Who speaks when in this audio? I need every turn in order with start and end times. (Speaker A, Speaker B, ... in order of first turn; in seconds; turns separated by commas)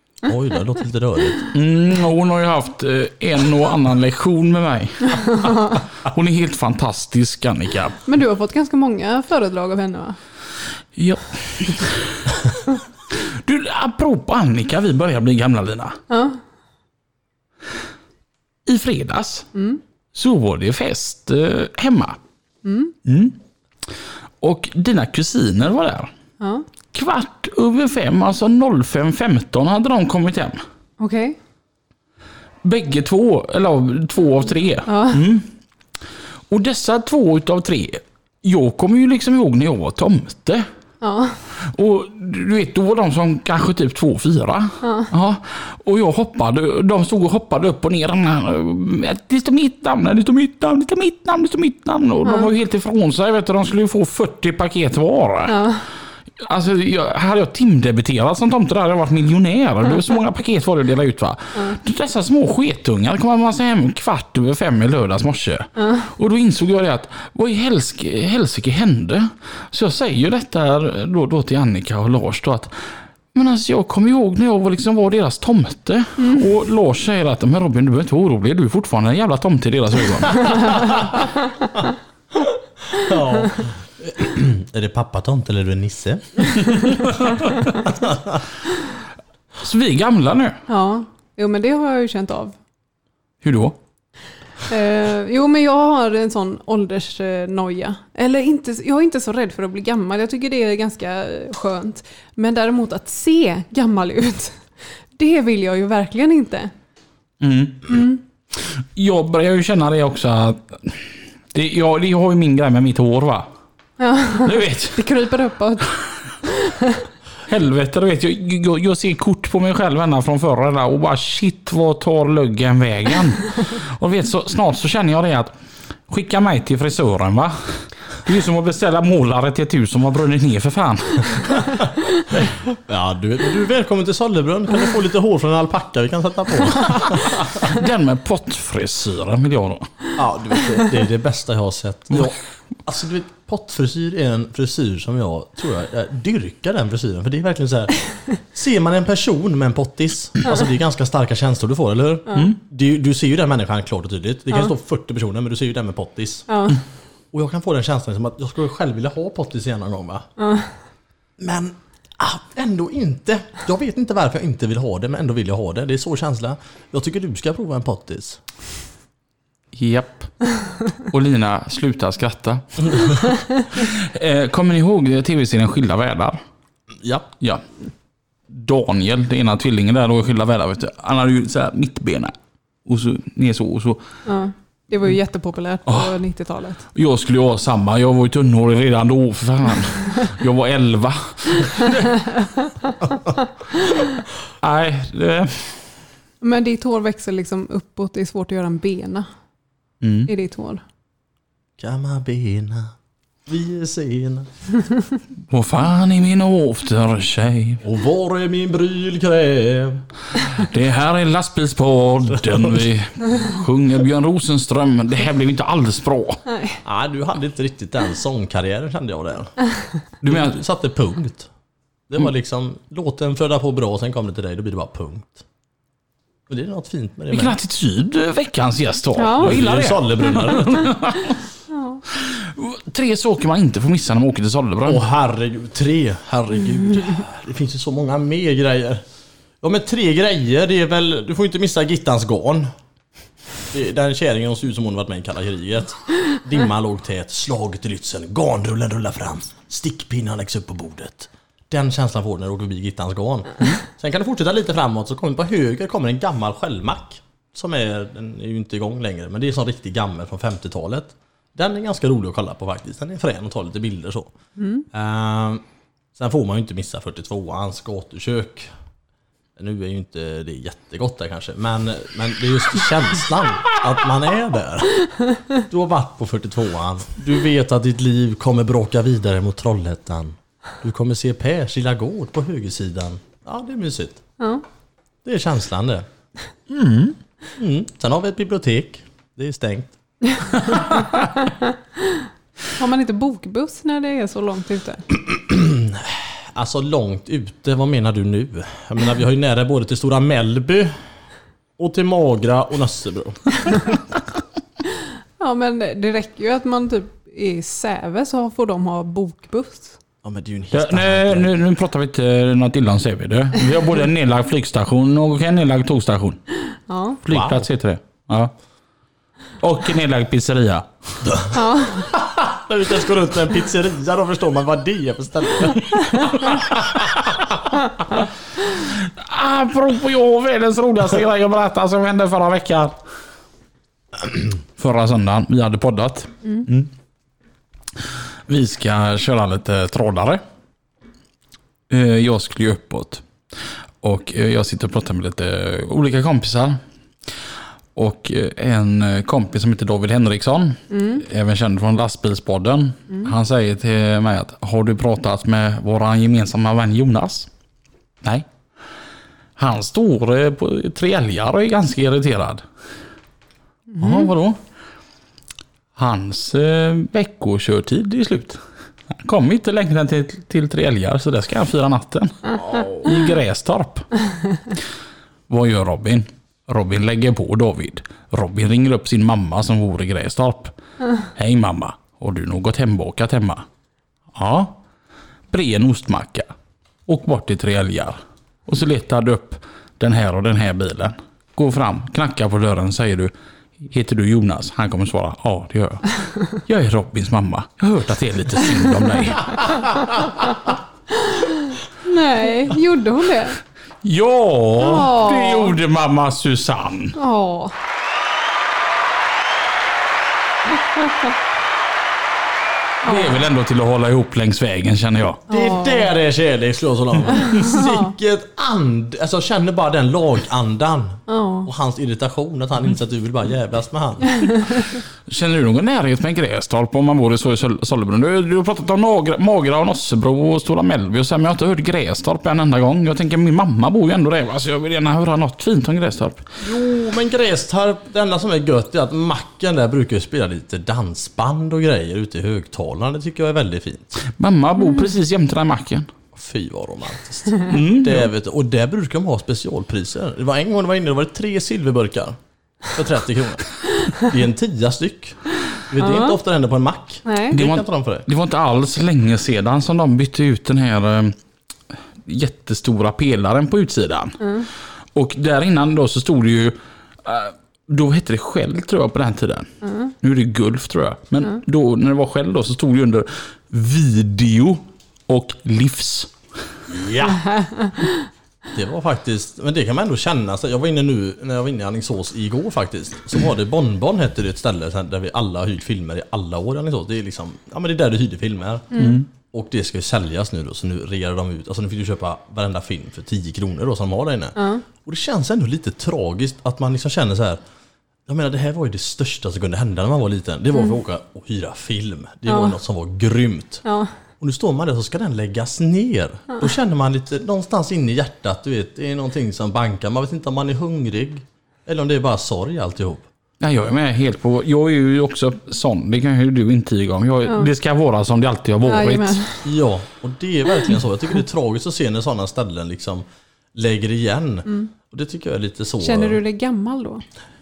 Speaker A: 0.2-1.4, Speaker B: 1.5-8.0, Speaker C: 8.1-10.2, Speaker B: 10.9-12.4, Speaker B: 13.1-16.0, Speaker C: 16.1-16.4, Speaker B: 18.6-19.5, Speaker C: 19.5-19.8, Speaker B: 20.1-22.2, Speaker C: 22.6-22.9, Speaker B: 23.0-23.4, Speaker B: 24.4-26.1, Speaker C: 26.4-26.6, Speaker B: 26.9-30.6, Speaker C: 31.0-31.4, Speaker B: 32.6-35.5, Speaker C: 34.9-35.2, Speaker B: 36.5-40.6, Speaker C: 41.0-41.4, Speaker B: 41.6-55.7, Speaker C: 44.8-45.1, Speaker C: 52.2-52.5, Speaker C: 55.5-55.8, Speaker B: 56.4-72.7, Speaker B: 73.3-80.9, Speaker C: 76.2-76.4, Speaker A: 82.9-86.6, Speaker A: 87.9-88.4, Speaker B: 89.6-90.6, Speaker C: 90.7-92.5, Speaker B: 93.4-93.8, Speaker C: 94.7-106.7, Speaker B: 107.4-113.5, Speaker C: 107.9-108.2, Speaker C: 114.0-115.9, Speaker B: 114.4-115.0, Speaker C: 116.4-117.0, Speaker B: 117.5-125.5, Speaker B: 126.1-131.8, Speaker A: 132.7-137.6, Speaker B: 137.6-139.9, Speaker A: 140.2-156.5, Speaker C: 156.5-156.8, Speaker A: 157.3-160.2, Speaker C: 160.4-160.7, Speaker A: 161.4-168.4, Speaker B: 169.7-176.4, Speaker A: 177.0-177.3, Speaker B: 178.5-182.3, Speaker B: 182.8-184.0, Speaker C: 184.2-186.9, Speaker B: 185.9-186.2, Speaker B: 186.9-192.4, Speaker B: 194.6-195.7, Speaker C: 196.4-199.3, Speaker B: 200.0-200.3, Speaker C: 200.3-200.8, Speaker A: 201.8-202.9, Speaker A: 203.5-204.5, Speaker B: 205.5-207.8, Speaker A: 207.8-210.0, Speaker B: 210.5-216.4, Speaker C: 216.5-216.8, Speaker A: 216.8-219.5, Speaker B: 220.2-220.6, Speaker A: 220.2-221.5, Speaker A: 222.1-225.4, Speaker A: 226.5-227.6, Speaker B: 227.3-231.4, Speaker C: 229.1-229.6, Speaker A: 229.4-230.9, Speaker C: 231.7-232.0, Speaker B: 232.1-235.0, Speaker A: 234.8-239.0, Speaker A: 239.6-242.7, Speaker A: 243.7-264.3, Speaker C: 264.6-264.8, Speaker A: 264.9-265.6, Speaker A: 266.1-268.7, Speaker A: 269.6-284.2, Speaker A: 285.2-286.0, Speaker B: 286.7-287.1, Speaker A: 287.6-289.9, Speaker C: 292.8-295.0, Speaker A: 295.3-301.0, Speaker A: 301.8-303.7, Speaker C: 305.4-310.0, Speaker A: 310.2-311.5, Speaker B: 310.7-316.4, Speaker C: 316.9-317.2, Speaker B: 317.2-318.5, Speaker A: 317.3-317.7, Speaker B: 319.6-321.2, Speaker A: 321.2-327.2, Speaker C: 321.5-322.1, Speaker B: 328.8-333.0, Speaker B: 334.8-336.9, Speaker B: 338.5-340.4, Speaker B: 341.9-343.2, Speaker B: 344.0-346.8, Speaker B: 347.9-357.5, Speaker C: 350.9-351.2, Speaker B: 359.6-362.6, Speaker C: 363.9-364.2, Speaker B: 364.0-364.6, Speaker B: 365.9-374.1, Speaker B: 375.5-380.7, Speaker B: 381.3-383.6, Speaker B: 384.3-384.8, Speaker B: 385.5-386.5, Speaker B: 387.1-400.2, Speaker C: 401.3-403.6, Speaker B: 404.0-407.1, Speaker C: 404.8-405.8, Speaker C: 407.1-407.7, Speaker C: 413.0-413.4, Speaker B: 413.0-415.4, Speaker C: 415.5-416.1, Speaker A: 415.5-424.8, Speaker C: 417.5-418.1, Speaker C: 421.3-421.7, Speaker B: 425.3-436.4, Speaker A: 436.6-444.2, Speaker B: 444.2-446.1, Speaker A: 446.3-452.4, Speaker B: 447.7-448.3, Speaker A: 452.9-455.4, Speaker A: 455.9-458.3, Speaker C: 456.0-456.4, Speaker C: 457.2-457.6, Speaker B: 457.5-461.4, Speaker B: 462.2-476.3, Speaker C: 469.8-470.1, Speaker A: 476.9-477.4, Speaker C: 477.6-477.9, Speaker A: 478.7-497.6, Speaker B: 489.0-489.2, Speaker C: 494.6-494.8, Speaker A: 498.3-503.8, Speaker C: 503.8-504.1, Speaker A: 504.4-513.2, Speaker B: 513.6-519.4, Speaker C: 518.8-519.6, Speaker A: 519.6-526.4, Speaker C: 526.0-527.2